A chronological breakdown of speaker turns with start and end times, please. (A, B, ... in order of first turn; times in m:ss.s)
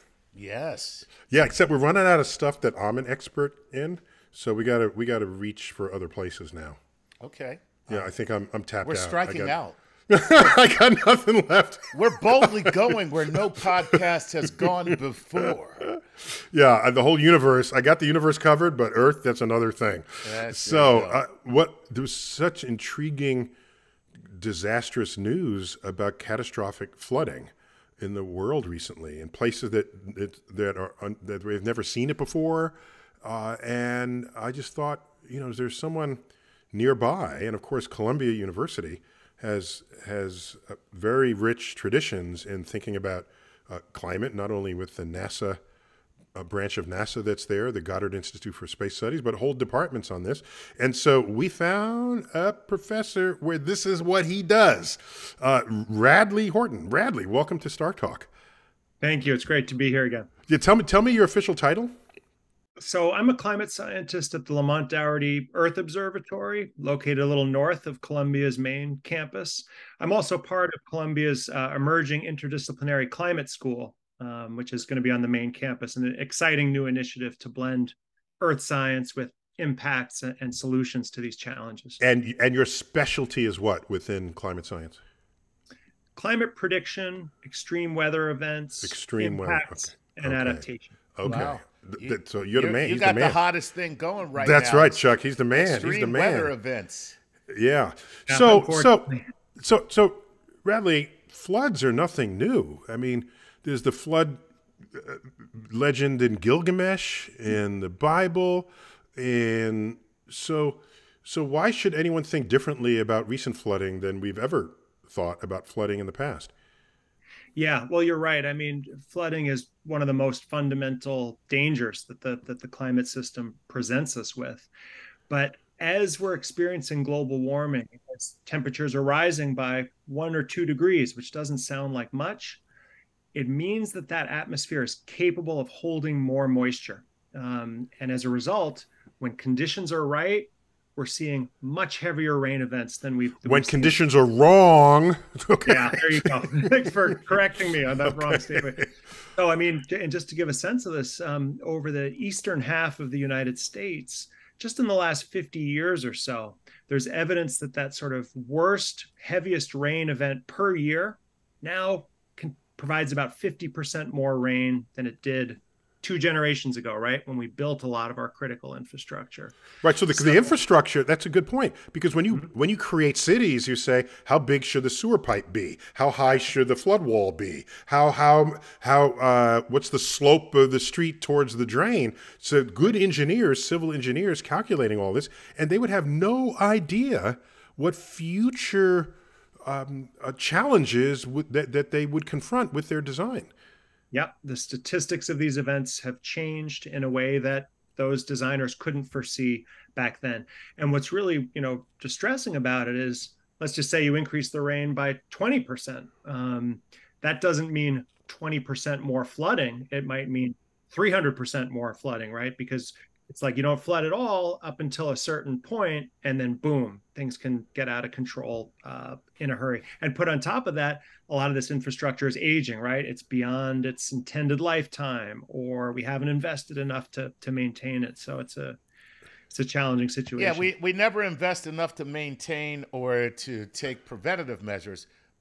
0:00.4-0:01.1 A
0:01.3-0:06.8 B
0:07.2-0:08.1 A
0:07.9-0:13.0 B
0:08.8-0:09.8 A
0:11.9-0:15.9 A
0:13.8-0:23.5 B
0:20.2-0:21.2 A
0:24.2-0:36.2 B
0:36.7-0:45.6 B
0:46.3-0:58.3 B
0:59.0-1:00.3 C
1:00.5-1:01.9 B
1:02.8-1:22.0 C
1:22.0-1:25.0 B
1:26.2-1:31.0 C
1:28.8-1:33.4 B
1:31.2-1:37.2 A
1:34.4-1:36.5 B
1:37.5-1:56.5 B
1:38.3-1:39.3 C
1:57.6-2:04.7 C
2:05.3-2:12.6 C
2:13.3-2:24.0 C
2:23.4-2:26.9 B
2:25.6-2:49.6 C
2:28.1-2:28.9 B
2:49.8-3:09.2 B
2:50.1-2:50.6 C
3:09.7-3:13.5 B
3:14.1-3:48.8 C
3:49.5-3:50.7 C
3:50.4-3:55.1 A